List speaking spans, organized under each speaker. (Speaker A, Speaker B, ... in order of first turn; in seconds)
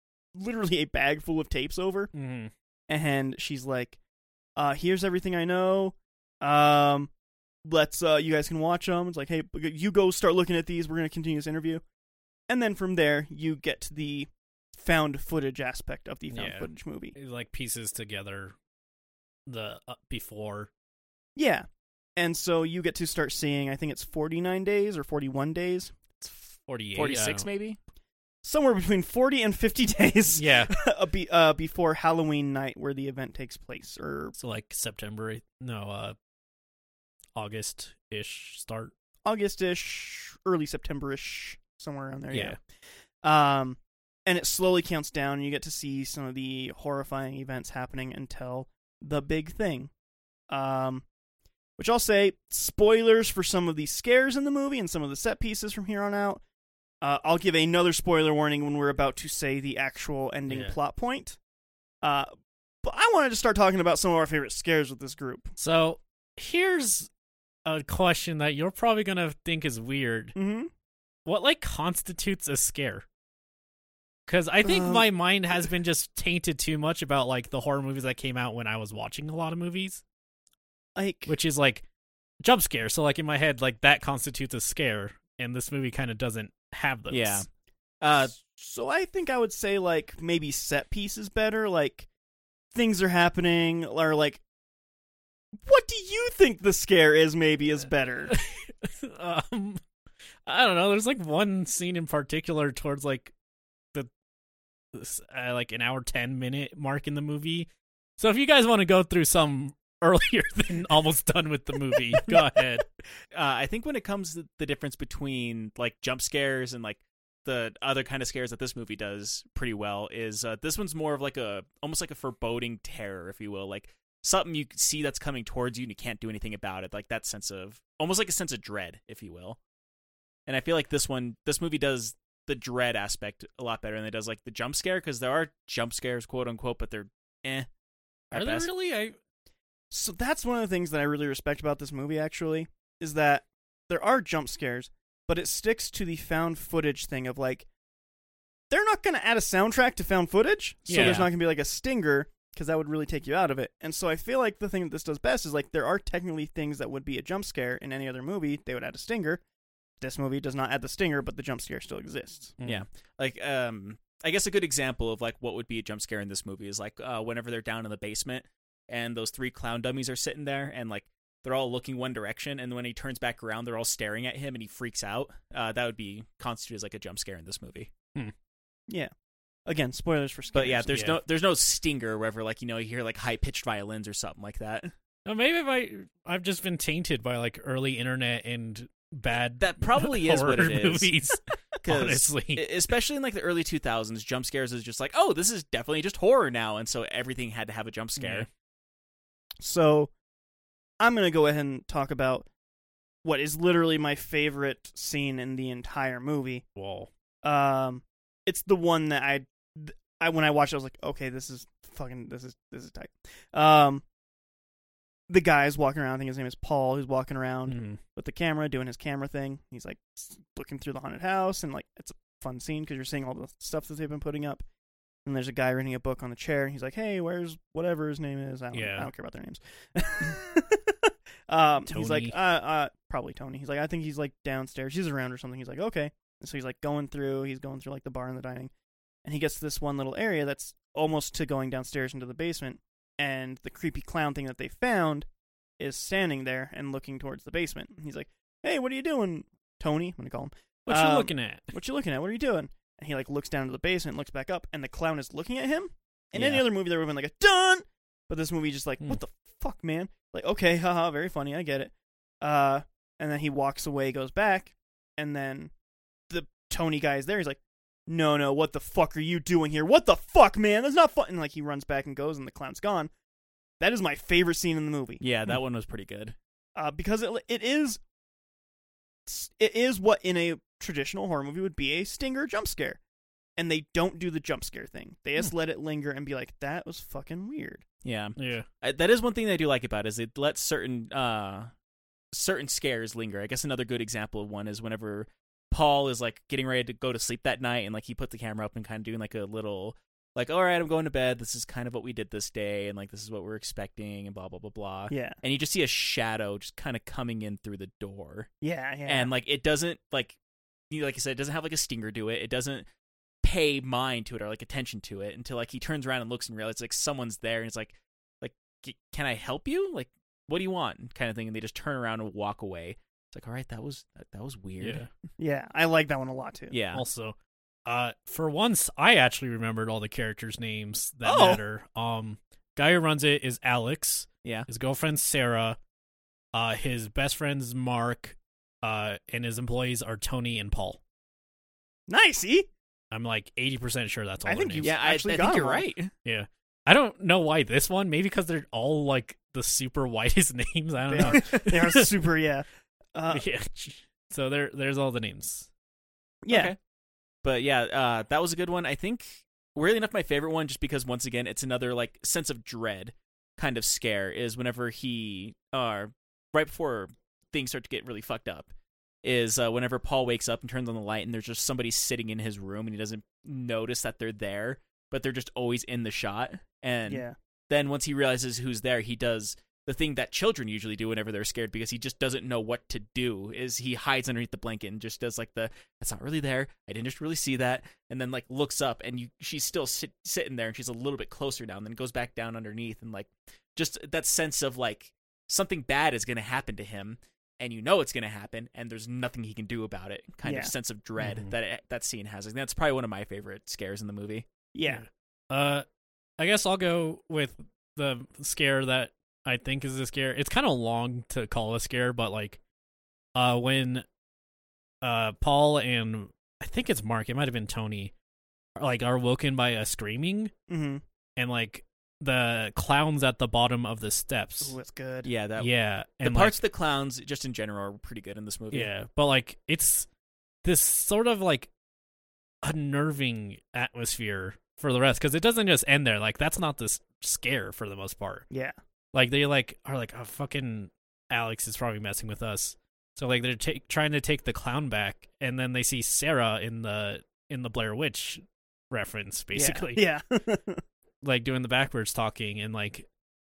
Speaker A: 0.3-2.1, 2.9-4.0, 4.5-7.1, 7.6-11.8, 12.5-17.1, 21.4-21.6, 22.2-26.0, 28.4-34.3, 39.2-42.6, 43.2-49.9, 50.5-51.0, 51.8-56.4, 57.0-61.4, 62.0-62.3, 62.8-65.5, 70.3-70.7, 74.6-75.0, 81.0-81.3, 88.3-92.1, 92.7-94.4, 95.6-98.4, 139.9-147.7, 148.7-159.4, 160.0-162.6, 179.7-180.9, 199.6-200.1, 201.0-202.5, 203.2-206.6, 207.4-214.0, 215.3-224.6, 225.2-238.7, 239.2-245.3, 245.8-265.7, 266.3-273.1, 273.8-275.2, 276.8-278.0, 279.2-283.0, 283.6-287.8, 305.1-305.4, 308.6-309.3, 325.4-326.7, 331.2-331.6, 342.1-342.7, 344.4-345.8, 351.1-353.4, 356.4-356.7, 377.1-377.4, 400.4-400.7, 404.7-405.0, 420.7-421.0, 424.6-425.3, 438.5-438.8, 449.5-450.8
Speaker B: 2.1-2.5, 16.3-18.6, 19.4-20.7, 26.6-27.5, 30.3-30.7, 34.4-36.1, 37.3-38.9, 42.3-42.6, 60.5-60.8, 65.6-67.1, 67.6-70.3, 71.2-73.0, 74.2-80.0, 81.3-81.8, 82.4-87.4, 98.3-99.8, 100.5-103.3, 104.9-112.8, 138.3-139.2, 150.9-151.3, 162.6-162.8, 180.9-181.2, 185.2-192.6, 198.2-198.5, 206.8-207.1, 217.7-218.0, 228.7-229.1, 231.9-232.3, 250.9-251.7, 256.3-256.6, 288.4-288.7, 324.8-325.1, 326.9-335.8, 336.5-341.0, 343.1-344.9, 346.2-352.1, 353.3-355.7, 401.2-401.5, 404.9-405.8, 406.4-412.6, 413.3-414.0, 415.0-418.1, 418.8-420.5, 421.4-424.7, 425.6-426.6, 428.7-430.1, 430.6-431.7, 432.6-438.4, 439.1-450.0, 451.2-453.1
Speaker C: 26.9-27.8, 87.1-87.5, 88.0-88.3, 113.3-129.6, 130.5-137.7, 138.3-138.7, 150.9-151.2, 162.6-177.9, 180.5-184.9, 189.6-191.1, 191.8-198.5, 275.2-276.3, 288.0-291.7, 292.3-308.5, 309.1-310.4, 310.9-312.9, 313.4-325.1, 326.7-327.0, 344.8-346.1, 356.5-356.8, 357.4-368.7, 369.2-404.4, 425.2-428.9